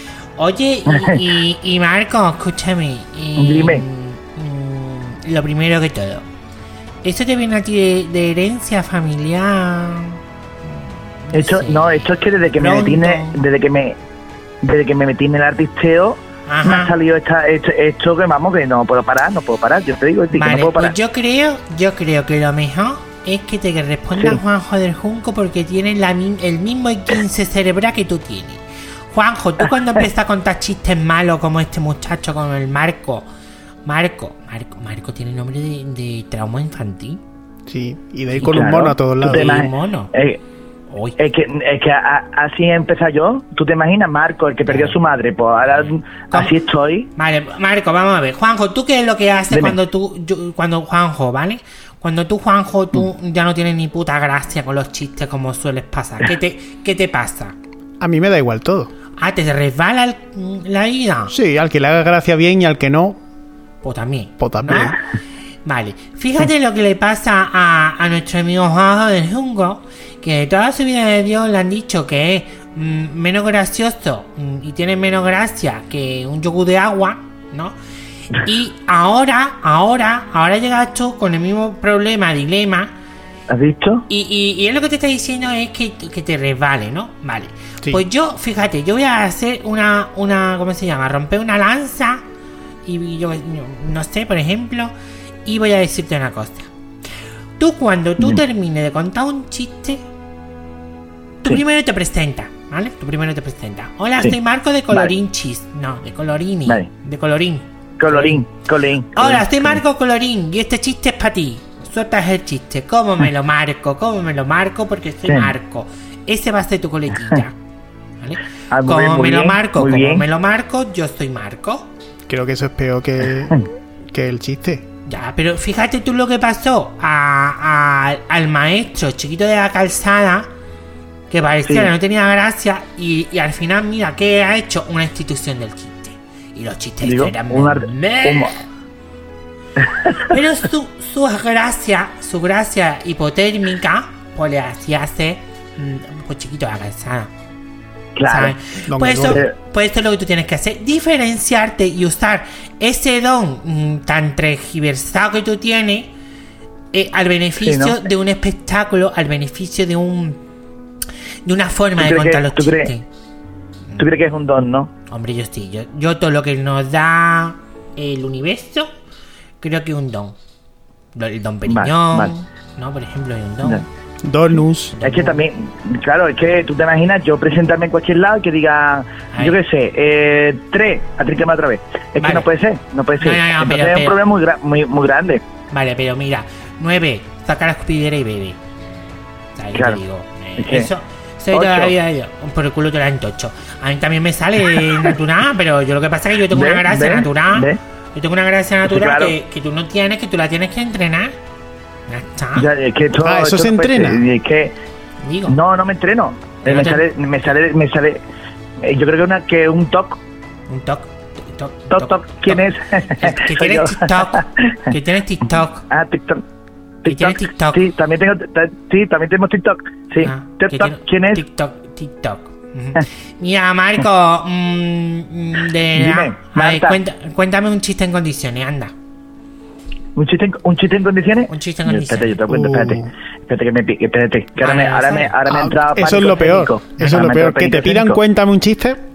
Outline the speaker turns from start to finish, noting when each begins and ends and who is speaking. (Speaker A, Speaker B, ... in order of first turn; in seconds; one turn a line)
Speaker A: 0.4-6.3
Speaker B: 0.9-1.2
Speaker B: 3.4-3.8
Speaker A: 7.0-10.2
Speaker A: 11.3-13.4
Speaker B: 11.3-14.0
Speaker B: 14.6-20.9
Speaker A: 16.5-16.9
Speaker A: 20.3-33.3
Speaker A: 33.9-37.2
Speaker C: 37.7-39.6
Speaker A: 38.4-38.7
Speaker B: 38.4-40.4
Speaker A: 39.2-40.1
Speaker A: 40.9-41.2
Speaker B: 41.2-47.1
Speaker A: 44.7-45.0
Speaker A: 45.8-46.5
Speaker A: 47.2-57.5
Speaker B: 49.5-49.8
Speaker C: 58.0-58.9
Speaker A: 59.2-61.3
Speaker C: 61.3-63.2
Speaker A: 63.8-65.0
Speaker C: 64.4-65.0
Speaker A: 65.7-77.8
Speaker A: 78.3-82.9
Speaker B: 83.5-84.0
Speaker A: 84.1-92.2
Speaker A: 92.9-94.9
Speaker A: 95.5-96.7
Speaker A: 97.6-100.0
Speaker A: 101.4-108.4
Speaker B: 108.0-109.8
Speaker A: 109.2-117.5
Speaker B: 115.3-115.5
Speaker A: 118.2-121.9
Speaker B: 118.7-120.2
Speaker C: 122.3-124.8
Speaker A: 125.1-130.5
Speaker A: 131.3-138.5
Speaker B: 131.7-131.9
Speaker B: 137.0-138.5
Speaker B: 139.9-140.3
Speaker A: 140.2-147.3
Speaker B: 148.2-148.5
Speaker A: 148.3-156.1
Speaker C: 148.9-149.4
Speaker B: 149.3-149.5
Speaker A: 156.9-160.4
Speaker B: 157.6-158.0
Speaker A: 161.4-163.1
Speaker B: 162.0-162.9
Speaker B: 164.0-164.9
Speaker A: 165.1-168.9
Speaker A: 169.6-170.4
Speaker A: 171.2-173.8
Speaker B: 171.7-172.3
Speaker C: 174.2-175.0
Speaker A: 175.0-175.4
Speaker B: 175.0-185.4
Speaker A: 179.3-179.6
Speaker A: 182.2-182.5
Speaker A: 183.2-184.2
Speaker A: 185.7-188.6
Speaker A: 189.6-201.3
Speaker B: 189.7-190.0
Speaker B: 190.6-190.9
Speaker B: 191.5-191.9
Speaker B: 196.5-197.8
Speaker B: 198.8-199.3
Speaker A: 202.1-202.7
Speaker B: 202.6-204.7
Speaker C: 203.2-204.3
Speaker A: 205.2-205.6
Speaker B: 205.5-208.2
Speaker A: 206.6-207.0
Speaker B: 208.8-210.2
Speaker A: 210.7-215.9
Speaker B: 211.9-214.8
Speaker B: 215.9-216.4
Speaker B: 217.0-221.4
Speaker A: 217.1-217.8
Speaker A: 220.2-228.9
Speaker B: 225.9-227.0
Speaker B: 230.2-238.2
Speaker A: 231.5-232.4
Speaker C: 232.5-233.1
Speaker A: 234.6-235.3
Speaker C: 235.4-239.0